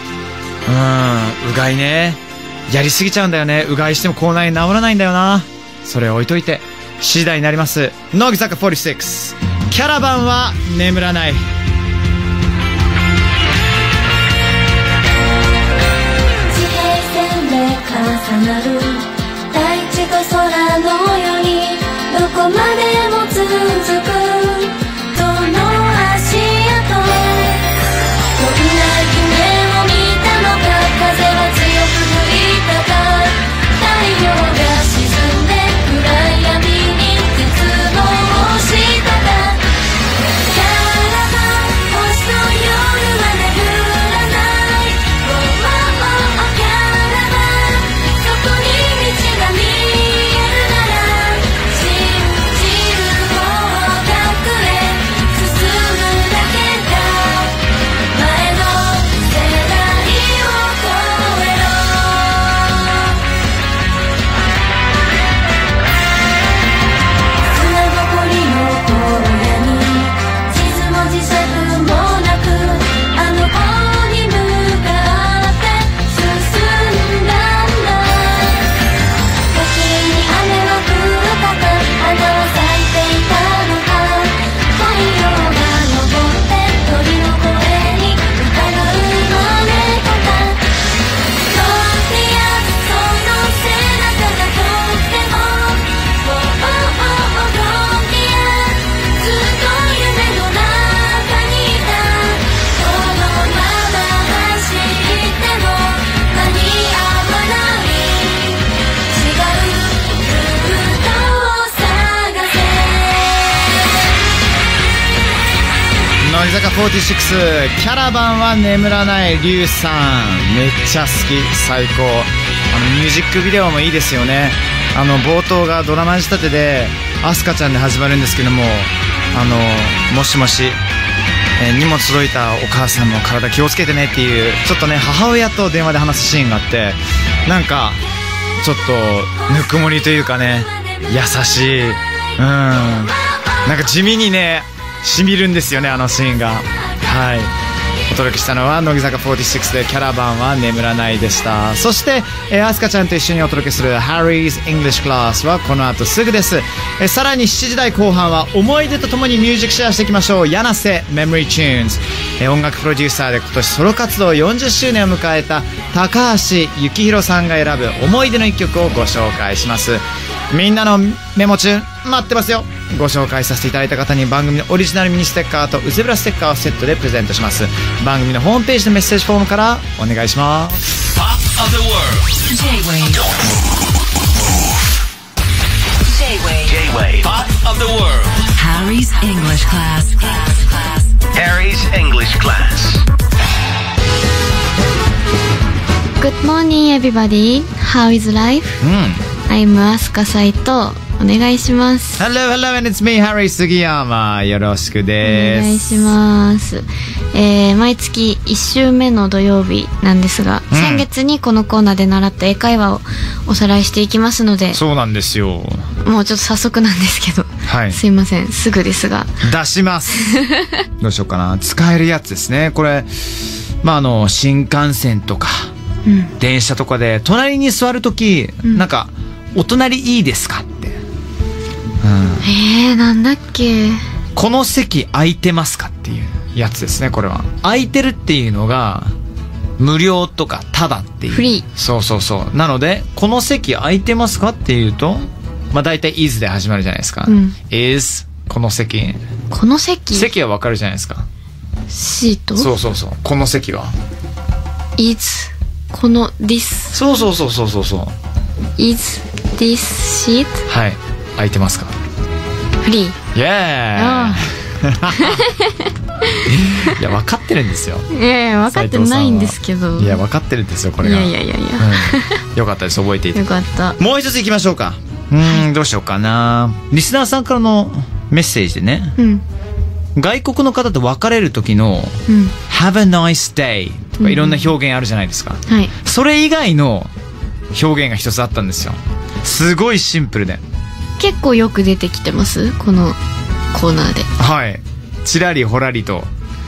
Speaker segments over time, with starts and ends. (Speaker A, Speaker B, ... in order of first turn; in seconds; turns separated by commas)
Speaker A: 0.7-11.4, Speaker B: 16.5-27.7, Speaker B: 28.3-63.2, Speaker B: 67.5-78.8, Speaker B: 79.5-113.7, Speaker A: 116.2-130.8, Speaker A: 131.6-138.0, Speaker A: 138.6-147.5, Speaker A: 148.1-180.9, Speaker C: 181.4-182.2, Speaker D: 182.5-183.3, Speaker D: 186.2-186.7, Speaker C: 186.7-188.3, Speaker D: 188.5-190.7, Speaker C: 191.3-193.0, Speaker E: 196.2-198.8, Speaker A: 198.8-199.2, Speaker E: 199.5-202.2, Speaker A: 202.2-206.1, Speaker E: 205.2-214.8, Speaker A: 210.7-211.1, Speaker A: 214.7-215.9, Speaker E: 216.0-219.4, Speaker A: 217.7-218.0, Speaker A: 219.4-220.4, Speaker E: 220.3-220.8, Speaker A: 221.0-225.7, Speaker E: 226.1-226.3, Speaker A: 226.4-231.0, Speaker A: 232.0-232.5, Speaker E: 232.4-234.0, Speaker A: 234.4-239.1, Speaker A: 239.8-249.2, Speaker E: 241.3-241.7, Speaker E: 247.3-247.6, Speaker E: 249.5-250.3, Speaker A: 250.1-251.3, Speaker E: 251.9-252.7, Speaker A: 252.6-253.9, Speaker E: 255.0-257.0, Speaker A: 256.9-258.1, Speaker E: 258.8-260.6, Speaker A: 260.7-261.9, Speaker E: 262.8-263.2, Speaker A: 263.3-265.5, Speaker E: 264.0-264.4, Speaker E: 265.1-267.0, Speaker A: 266.4-268.1, Speaker E: 268.1-270.2, Speaker A: 268.7-273.4, Speaker E: 271.0-272.4, Speaker E: 273.4-274.0, Speaker A: 274.0-279.2, Speaker E: 279.2-279.4, Speaker A: 280.2-287.1, Speaker E: 282.3-282.5, Speaker E: 284.2-284.7, Speaker A: 287.7-290.6, Speaker E: 291.2-293.2, Speaker E: 293.7-294.3, Speaker A: 294.4-296.3